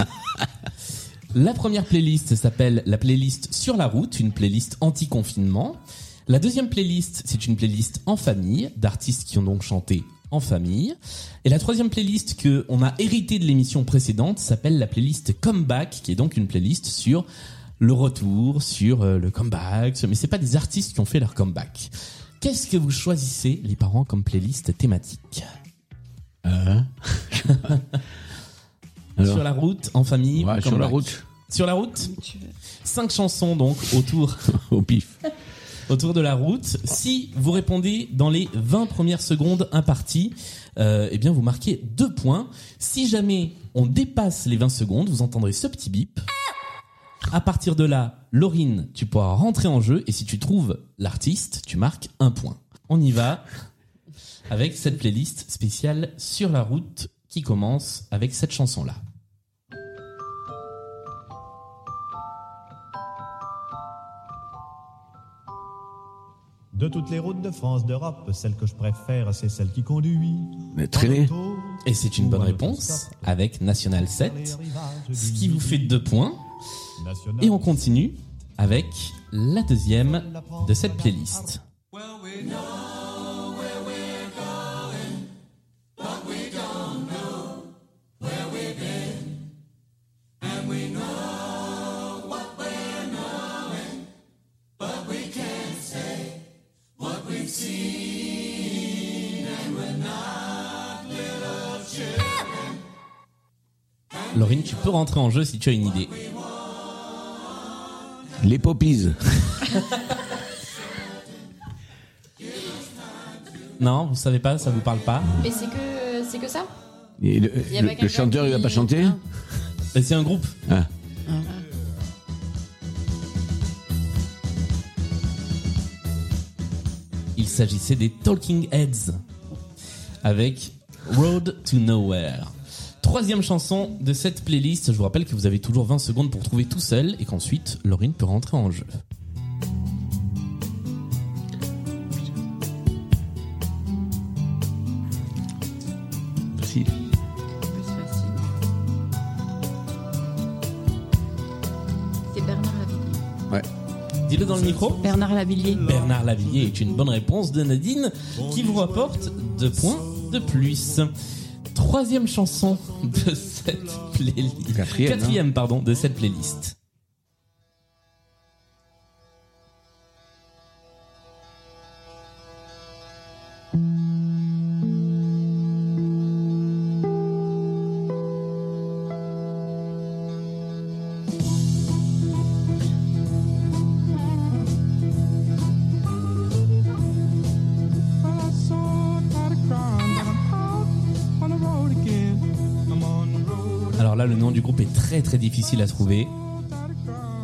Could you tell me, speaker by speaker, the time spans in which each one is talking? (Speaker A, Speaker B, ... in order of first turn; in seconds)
Speaker A: 1.3-17.2, 17.8-21.9, 22.4-25.4, 29.2-32.1, 32.8-34.4, 35.9-46.2, 47.3-53.4, 54.5-59.0, 71.8-74.5, 75.1-76.4, 77.4-81.6, 104.3-106.1, 113.8-115.3, 119.9-120.5, 127.3-129.2, 130.2-132.5, 133.0-138.9, 154.3-155.0, 155.8-161.1, 161.7-166.7, 194.0-196.3
Speaker B: 26.4-27.6, 29.2-29.4, 30.3-31.2, 34.5-35.1, 70.7-71.3, 108.4-109.6, 117.2-119.2, 146.5-146.9, 164.7-165.4
Speaker C: 32.0-32.5, 147.6-148.5, 152.3-153.2, 155.0-155.8
Speaker D: 66.7-73.3, 73.9-76.0, 77.0-77.9, 80.1-81.4
Speaker E: 115.4-116.7, 117.7-119.2, 155.0-155.8